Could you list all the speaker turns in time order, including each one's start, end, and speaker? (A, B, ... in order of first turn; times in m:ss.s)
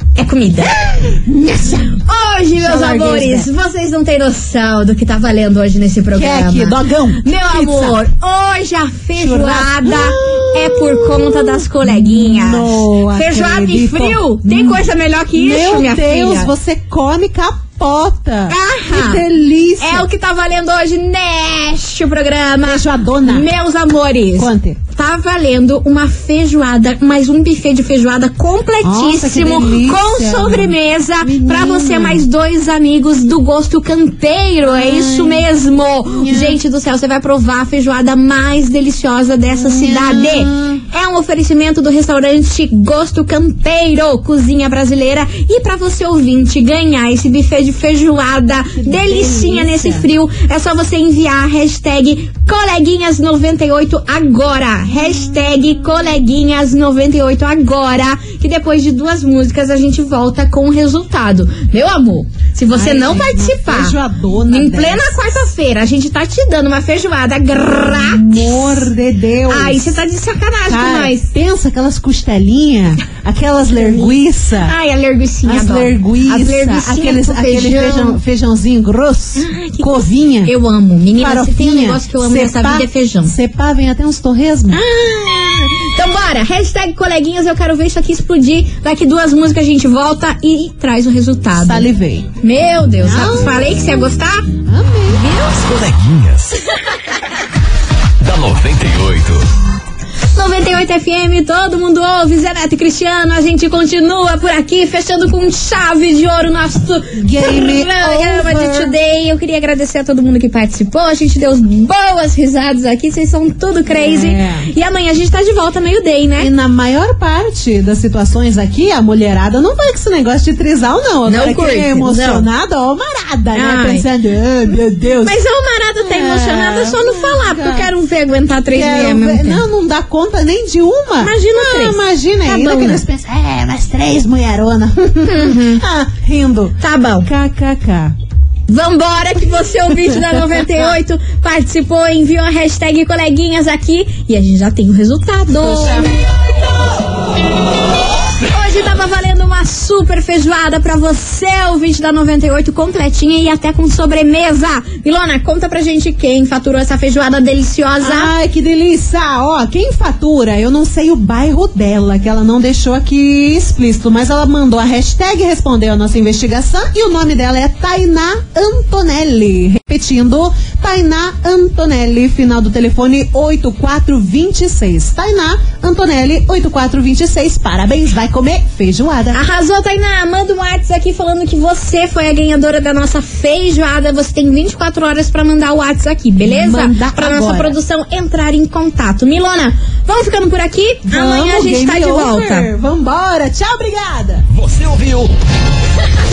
0:00.2-0:00.9 A
0:00.9-0:02.0 B
0:02.0-0:16.5 A
0:02.6-0:03.5 B
0:06.1-0:08.0 B
0:09.2-0:20.1 B
0:18.5-0:19.2 A
0:19.8-1:04.0 A
0:22.6-0:23.5 B
0:24.4-0:24.8 B
0:28.8-0:32.2 B
0:34.6-0:35.5 B
0:36.0-0:36.6 B
0:39.5-0:40.8 B
0:48.8-0:50.1 B
1:02.7-1:05.2 B
1:04.5-1:08.6 A
1:07.8-1:09.9 B
1:09.5-1:11.3 A
1:10.7-1:14.7 B
1:13.7-1:18.2 A
1:15.5-1:20.5 B
1:19.4-1:23.4 A
1:21.2-1:24.8 B
1:24.7-1:31.9 A
1:31.6-1:32.3 B
1:32.4-1:34.5 A
1:33.0-1:33.7 B
1:34.7-1:35.2 B
1:35.1-1:35.5 A
1:35.4-1:36.6 C
1:38.2-1:39.5 C
1:40.4-1:56.5 A
1:47.2-1:48.9 B
1:53.9-1:54.7 B
1:56.4-2:05.4 B
2:01.3-2:02.5 A
2:03.6-2:04.1 A
2:05.2-2:09.6 A
2:06.0-2:07.9 B
2:08.7-2:18.2 B
2:11.2-2:13.0 A
2:15.2-2:15.8 A
2:16.8-2:17.3 A
2:18.7-2:26.1 A
2:20.0-2:20.9 B
2:25.6-2:26.1 B
2:28.5-2:38.3 A
2:38.0-2:59.4 B
2:59.3-3:12.7 A
3:06.4-3:07.8 B
3:11.1-3:14.5 B
3:14.5-3:15.3 C